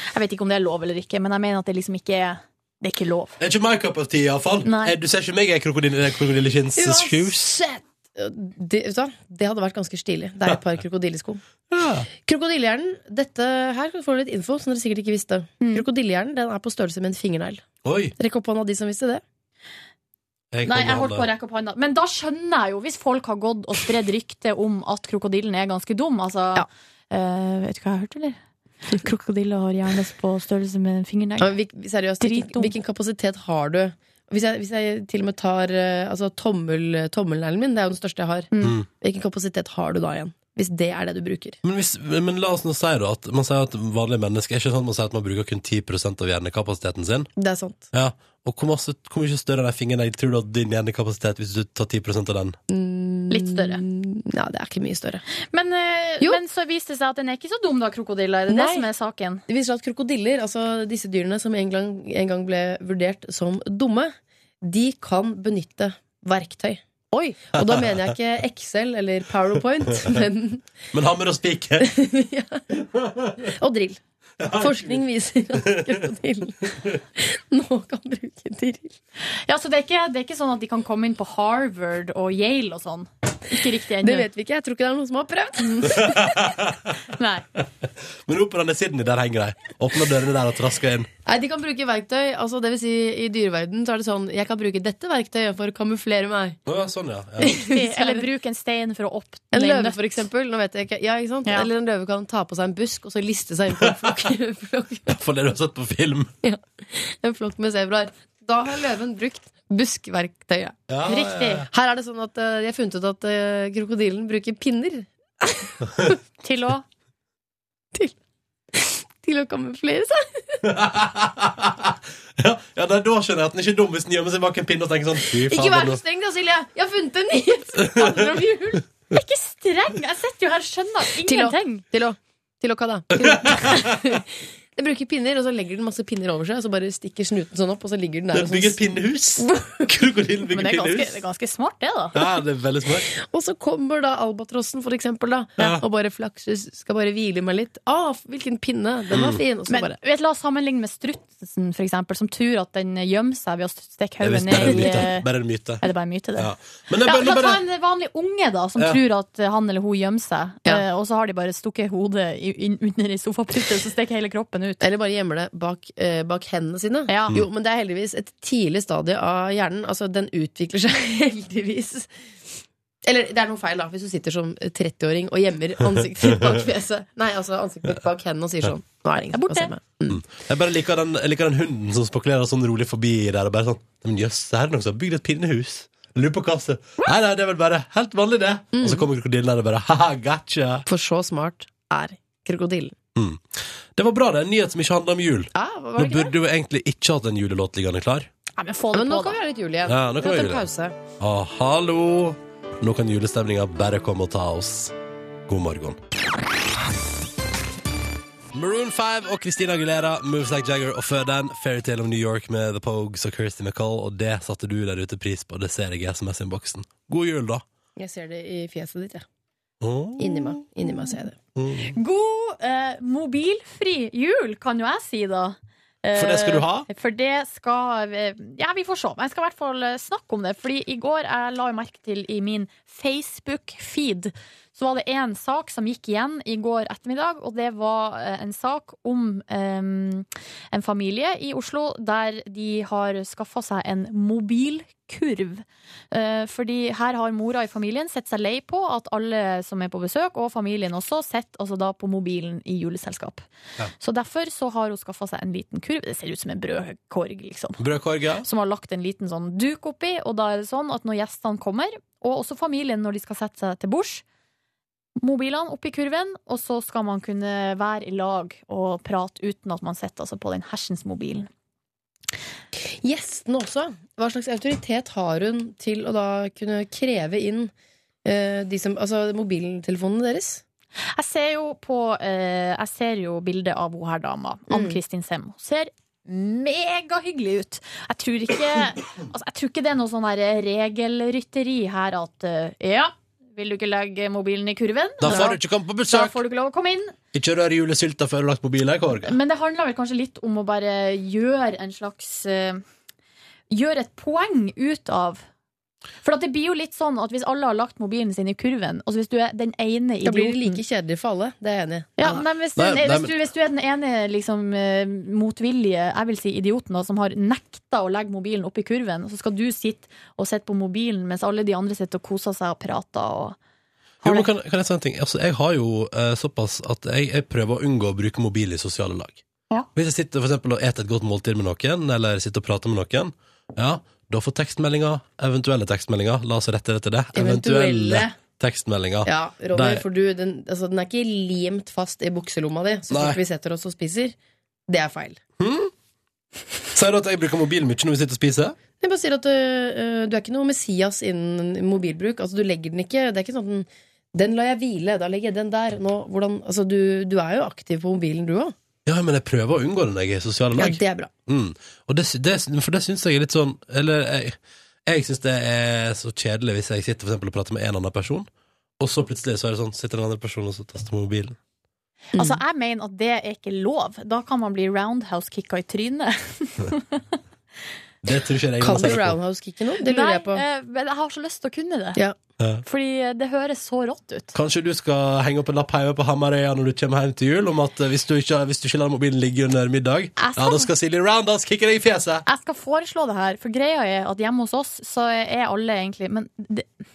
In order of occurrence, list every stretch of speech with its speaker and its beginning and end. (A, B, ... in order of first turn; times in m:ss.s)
0:00.1-0:03.4 A
0:03.4-0:07.6 B
0:04.6-0:05.0 A
0:06.8-0:11.4 C
0:11.7-0:12.1 B
0:12.2-0:17.7 C
0:17.8-0:18.1 B
0:18.2-0:19.2 C
0:20.5-0:21.3 B
0:20.6-0:31.6 A
0:31.4-0:41.6 C
0:32.2-0:32.7 A
0:38.5-0:38.8 A
0:38.6-0:38.9 B
0:41.6-0:47.3 B
0:47.4-0:47.9 C
0:47.9-0:52.6 B
0:52.7-0:55.2 C
0:53.3-0:53.8 A
0:55.5-0:59.4 A
0:58.5-0:58.9 C
0:59.5-1:10.6 C
1:07.7-1:08.0 B
1:10.9-1:11.9 B
1:11.8-1:12.6 C
1:12.8-1:13.5 B
1:13.4-1:19.0 C
1:14.4-1:15.0 B
1:15.6-1:16.0 B
1:16.7-1:17.0 B
1:19.4-1:24.3 A
1:24.0-1:26.3 C
1:25.6-1:26.5 A
1:26.0-1:26.9 B
1:27.1-1:27.4 A
1:27.8-1:31.1 B
1:31.3-1:36.6 C
1:36.7-1:37.6 B
1:37.4-1:38.2 C
1:37.5-1:40.2 A
1:39.5-1:45.2 C
1:45.1-1:46.3 B
1:46.4-1:50.8 C
1:50.9-1:51.7 B
1:51.1-1:51.7 A
1:51.7-1:56.2 C
1:56.4-1:56.8 A
1:58.7-2:00.7 C
2:00.6-2:06.0 B
2:05.3-2:08.8 C
2:07.8-2:08.3 B
2:09.1-2:11.8 A
2:11.2-2:18.8 C
2:13.2-2:14.0 B
2:18.3-2:21.2 B
2:19.4-2:19.9 C
2:20.5-2:22.2 A
2:22.1-2:23.1 B
2:23.1-2:30.0 C
2:25.6-2:25.8 B
2:29.1-2:29.4 B
2:29.7-2:35.3 A
2:34.2-2:35.8 B
2:34.5-2:35.0 C
2:35.8-2:36.5 A
2:36.4-2:37.6 B
2:37.0-2:44.8 A
2:44.8-2:52.1 C
2:47.1-2:47.4 A
2:53.0-3:00.2 C
2:59.3-2:59.7 A
3:00.1-3:10.8 B
3:08.7-3:09.1 C
3:10.9-3:13.0 C
3:13.2-3:18.3 B
3:15.5-3:16.4 C
3:18.6-3:19.4 A
3:18.9-3:21.0 C
3:19.9-3:20.6 B
3:21.2-3:24.9 B
3:25.5-3:26.0 B
3:28.5-3:37.6 B
3:38.0-3:39.3 C
3:39.8-3:40.6 B
3:40.2-3:41.4 C
3:41.6-3:41.9 B
3:41.9-4:13.4 A
3:46.2-3:46.9 B
4:14.0-4:17.8 A
4:17.8-4:18.5 B
4:18.4-4:24.2 A
4:25.2-4:31.5 A
4:32.8-4:37.7 C
4:38.2-4:40.6 C
4:41.2-4:55.6 A
4:44.7-4:45.0 C
4:55.2-4:56.4 B
4:55.3-4:55.6 C
4:56.1-4:57.1 A
4:57.3-4:59.4 B
4:59.2-5:02.8 A
5:03.7-5:05.4 A
5:06.2-5:10.8 A
5:10.2-5:12.4 C
5:12.2-5:23.6 A
5:12.8-5:13.3 B
5:24.2-5:24.5 A
5:24.2-5:29.4 B
5:30.0-5:40.0 B
5:37.3-5:38.3 C
5:39.2-5:44.4 C
5:43.1-5:43.4 B
5:44.9-5:45.4 C
5:45.6-5:45.9 B
5:46.9-5:48.8 B
5:49.0-5:58.8 C
5:59.1-6:04.6 B
6:00.8-6:01.3 C
6:05.1-6:08.5 B
6:09.0-6:11.6 B
6:12.3-6:12.6 C
6:12.4-6:17.2 A
6:18.2-6:19.4 B
6:18.8-6:20.6 C
6:20.0-6:22.2 A
6:22.8-6:24.6 A
6:24.6-6:32.4 B
6:30.4-6:30.9 A
6:32.5-6:36.9 A